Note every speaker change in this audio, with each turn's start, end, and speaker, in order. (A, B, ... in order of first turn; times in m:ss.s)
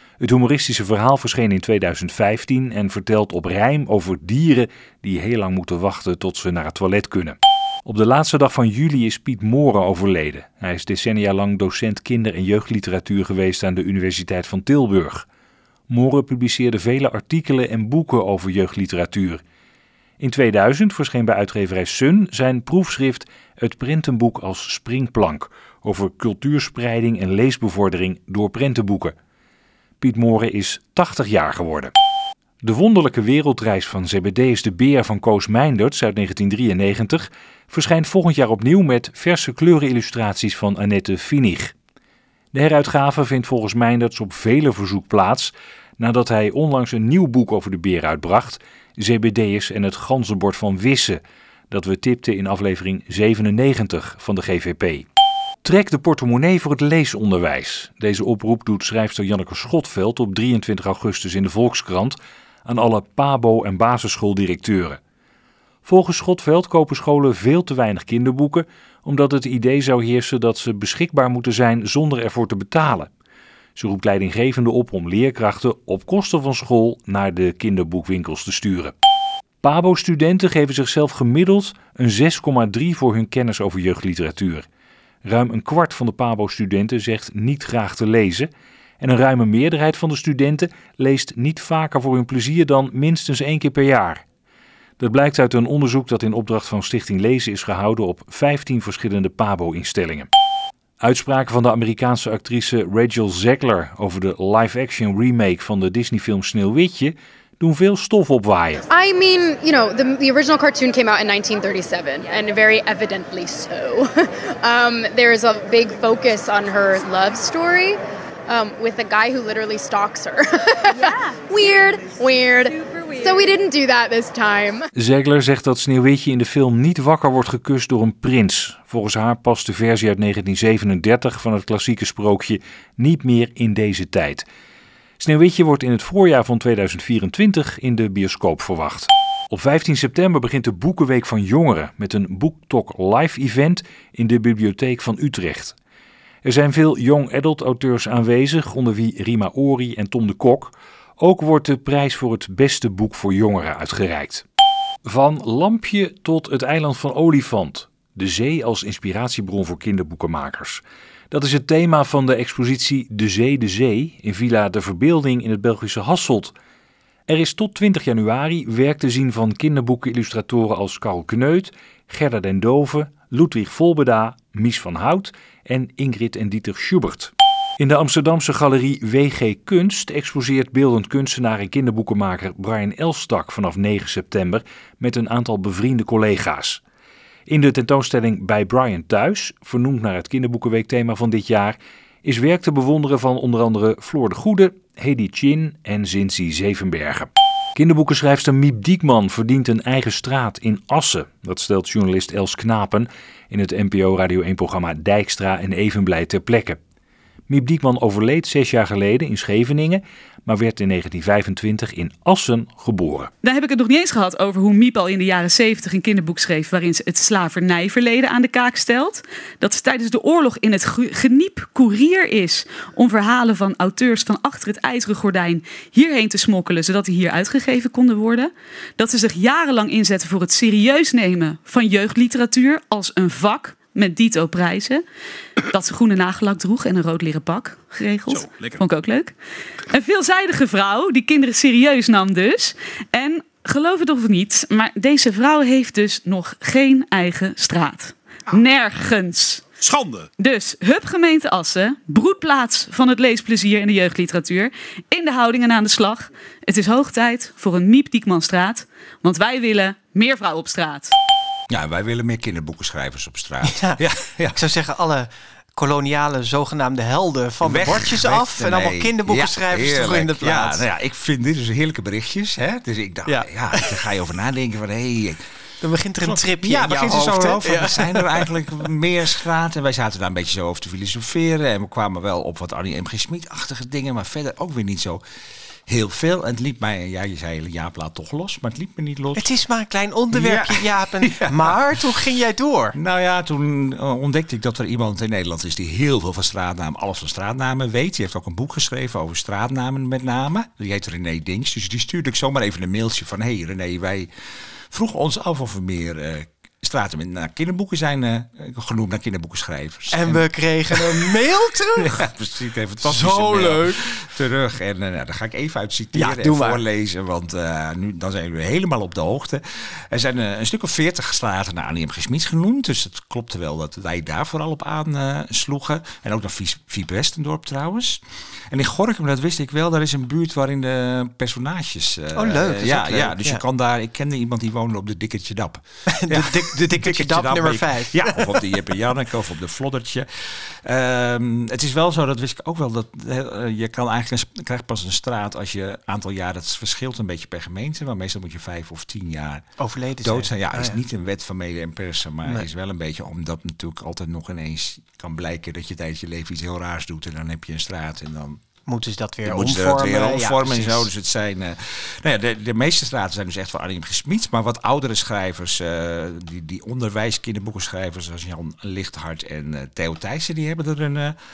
0:00.2-0:15.2 A
0:15.9-0:19.4 A
0:20.2-0:29.1 A
0:30.0-0:31.9 A
0:32.6-0:41.7 A
0:42.5-0:55.1 A
0:55.6-1:05.0 A
1:05.8-1:13.1 A
1:13.8-1:18.9 A
1:19.6-1:24.7 A
1:25.2-1:28.5 A
1:29.0-1:34.2 A
1:35.0-1:40.3 A
1:41.0-1:48.8 A
1:48.9-2:04.9 B
2:05.0-2:14.5 A
2:15.2-2:25.8 A
2:26.4-2:34.4 A
2:35.1-2:46.5 A
2:47.3-3:06.8 A
3:07.5-3:26.8 A
3:27.5-3:33.3 A
3:33.4-3:55.0 C
3:55.7-3:59.4 C
3:58.3-3:58.8 D
3:59.9-4:09.8 C
4:10.4-4:21.1 C
4:21.7-4:24.6 D
4:23.6-4:24.0 E
4:24.5-4:30.8 E
4:27.6-4:35.4 D
4:33.3-4:34.0 E
4:35.8-4:38.6 E
4:36.2-4:45.2 D
4:45.9-4:49.5 D
4:49.4-4:53.0 E
4:50.3-4:52.2 D
4:52.9-5:04.3 D
5:04.9-5:49.7 D
5:10.1-5:12.2 E
5:13.0-5:14.0 E
5:16.1-5:16.8 E
5:32.3-5:33.6 E
5:36.1-5:38.6 E
5:49.8-5:51.0 E
5:50.2-5:58.6 D
5:58.9-6:01.1 E
5:59.4-6:11.4 D